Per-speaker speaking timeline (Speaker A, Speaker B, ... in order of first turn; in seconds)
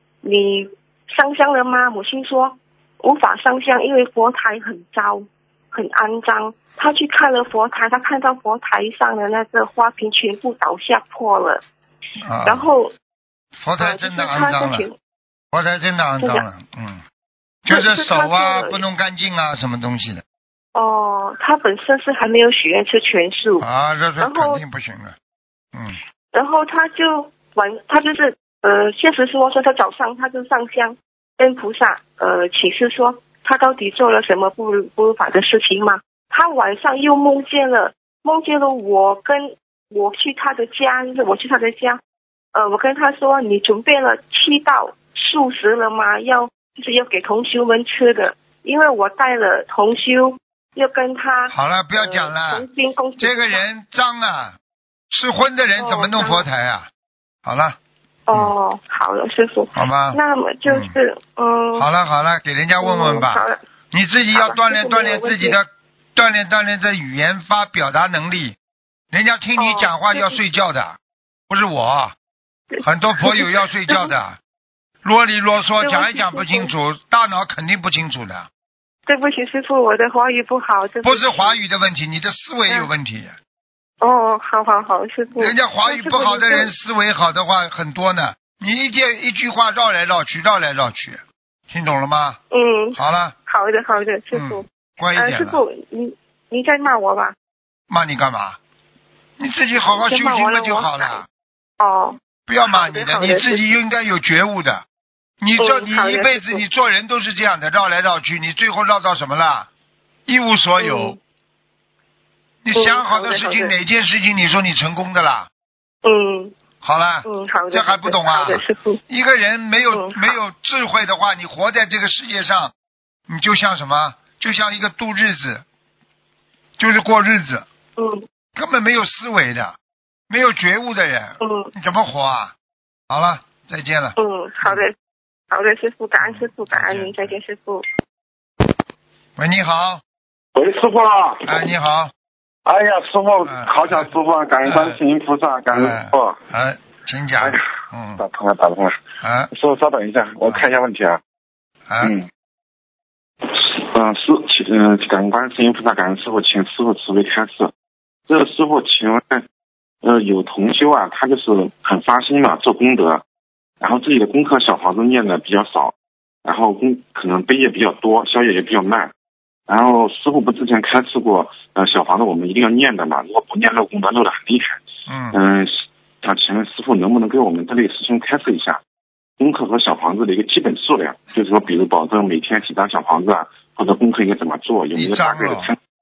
Speaker A: 0.2-11.6, 12.4-12.9, 13.8-14.9, 17.7-18.8, 20.8-23.7, 24.2-24.6, 26.3-42.0, 42.5-53.6, 55.8-56.5, 58.3-61.9, 62.8-63.6, 64.3-65.6, 69.6-70.4, 72.7-74.1, 75.8-76.7, 79.1-81.6, 84.0-86.7, 92.5-97.3, 99.8-101.2, 101.8-103.6, 105.6-106.6, 110.8-111.2, 112.7-113.7, 116.0-116.5, 117.3-119.0, 119.9-120.4, 128.0-128.2, 131.4-131.7, 134.2-134.9, 135.5-137.9
Speaker B: 12.2-12.7, 13.6-14.9, 15.5-17.0, 17.6-20.2, 23.6-25.2, 25.7-26.0, 51.5-52.7, 53.2-54.6, 55.1-56.9, 57.5-57.8, 59.8-60.9, 61.8-68.6, 69.1-71.0, 71.5-72.2, 72.8-74.4, 75.0-78.5, 81.0-83.4, 85.3-92.4, 93.0-93.4, 94.3-95.6, 97.9-98.6, 99.4-101.3, 102.5-104.8, 105.4-109.7, 110.3-111.2, 112.6-115.5, 116.8-122.7, 123.3-125.6, 126.8-127.7, 128.6-129.8, 130.3-132.6, 133.1-134.8, 136.2-137.4, 139.4-140.0, 141.4-142.1, 143.5-144.1, 144.7-145.0, 145.7-148.2, 149.2-149.5, 151.9-152.2, 175.1-175.4, 184.9-185.7
Speaker C: 140.6-141.7, 142.7-146.4, 147.4-147.7, 148.2-151.2, 152.0-152.3, 153.4-157.7, 158.3-159.5, 160.0-163.2, 163.8-165.9, 166.4-169.1, 169.7-178.8, 179.4-185.8